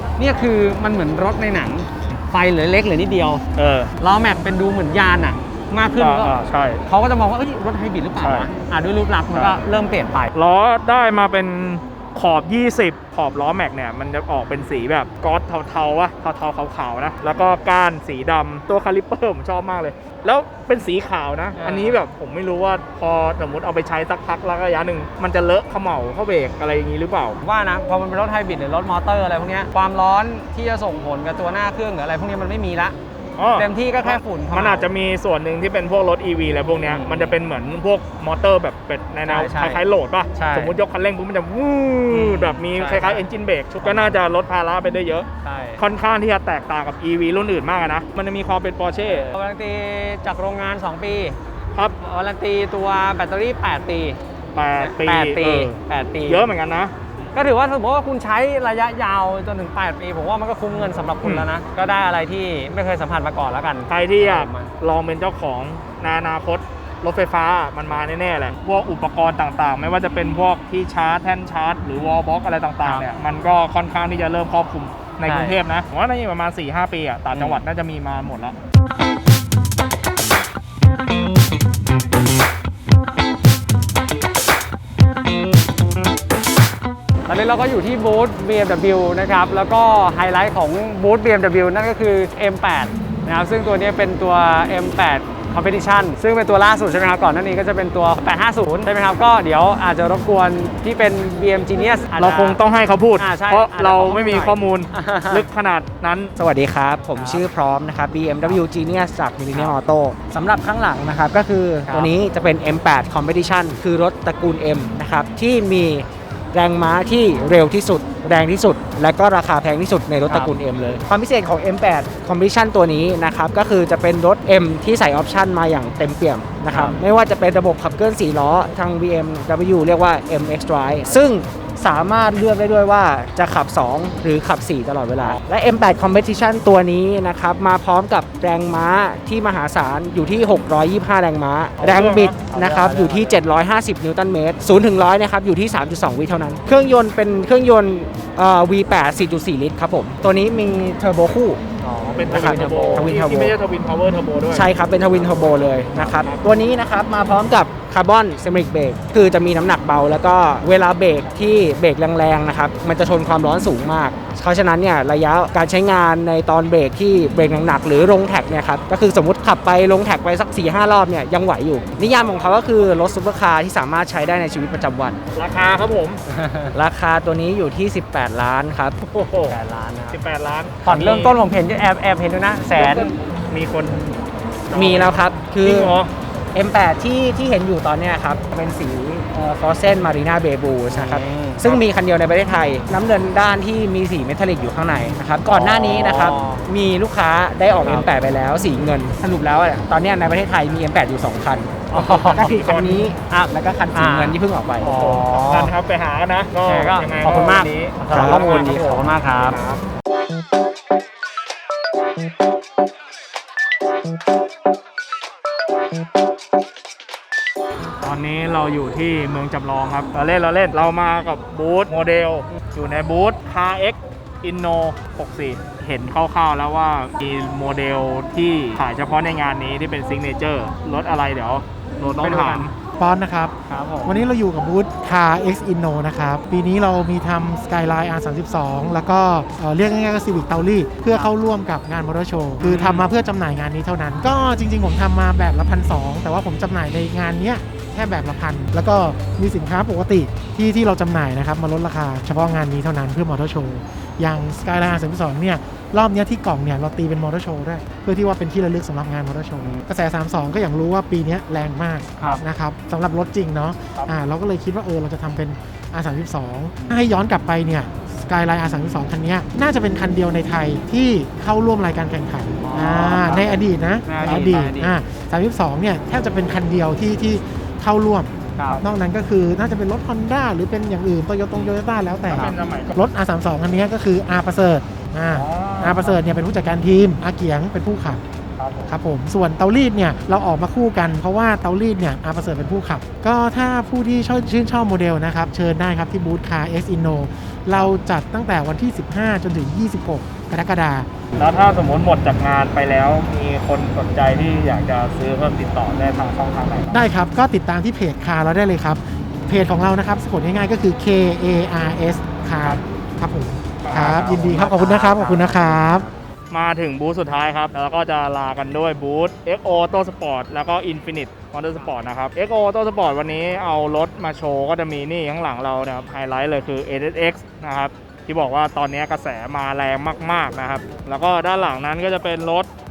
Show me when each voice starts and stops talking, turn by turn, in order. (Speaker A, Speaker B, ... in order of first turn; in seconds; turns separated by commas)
Speaker A: 0.2-3.4, Speaker B: 3.5-3.9, Speaker A: 4.0-10.3, Speaker B: 6.0-6.8, Speaker B: 8.2-8.5, Speaker B: 9.3-9.6, Speaker B: 10.3-27.4, Speaker A: 21.6-22.0, Speaker A: 27.4-33.0, Speaker B: 33.4-45.3, Speaker A: 33.6-34.9, Speaker A: 36.8-37.4, Speaker A: 39.2-39.8, Speaker A: 40.4-40.8, Speaker A: 42.1-43.3, Speaker A: 43.8-44.2, Speaker A: 45.4-45.8, Speaker B: 45.8-49.3, Speaker A: 49.0-51.4, Speaker A: 52.0-54.2, Speaker B: 54.5-56.9, Speaker A: 54.8-56.5, Speaker A: 57.3-64.7, Speaker B: 61.2-61.5, Speaker B: 63.9-78.6, Speaker A: 72.8-73.1, Speaker A: 75.3-75.6, Speaker A: 77.3-77.6, Speaker A: 87.3-102.6, Speaker B: 102.2-106.3, Speaker A: 103.2-105.5, Speaker C: 106.4-151.6, Speaker A: 107.2-107.5, Speaker A: 109.5-109.8, Speaker A: 111.9-112.2, Speaker A: 120.3-120.5, Speaker A: 126.7-127.0, Speaker A: 141.8-143.4, Speaker B: 141.8-142.4, Speaker A: 151.8-153.1, Speaker B: 152.0-156.5, Speaker C: 152.3-153.5, Speaker C: 154.5-175.2, Speaker B: 175.3-176.2, Speaker A: 176.3-176.8, Speaker C: 176.7-179.0, Speaker B: 179.0-179.6, Speaker A: 179.5-180.2, Speaker B: 180.1-181.4, Speaker A: 180.8-183.1, Speaker B: 182.8-186.1, Speaker C: 184.7-186.0, Speaker C: 186.5-205.0, Speaker A: 190.9-191.7, Speaker A: 195.5-196.7, Speaker A: 197.8-198.1, Speaker A: 201.9-202.5, Speaker B: 201.9-203.1, Speaker A: 203.3-205.7, Speaker B: 204.9-209.8, Speaker A: 206.7-209.6, Speaker C: 208.1-208.7, Speaker B: 218.0-232.7, Speaker A: 232.1-232.7, Speaker D: 233.0-233.5, Speaker A: 233.7-234.2, Speaker D: 234.1-288.2, Speaker A: 242.6-243.1, Speaker A: 262.2-262.4, Speaker A: 272.6-275.0, Speaker A: 278.6-278.8, Speaker B: 282.3-283.0, Speaker B: 285.3-286.2, Speaker B: 288.6-289.0, Speaker D: 288.9-301.1, Speaker B: 301.4-307.1, Speaker D: 306.9-316.1, Speaker B: 313.8-315.7, Speaker A: 315.2-316.1, Speaker B: 316.5-332.7, Speaker A: 321.8-322.1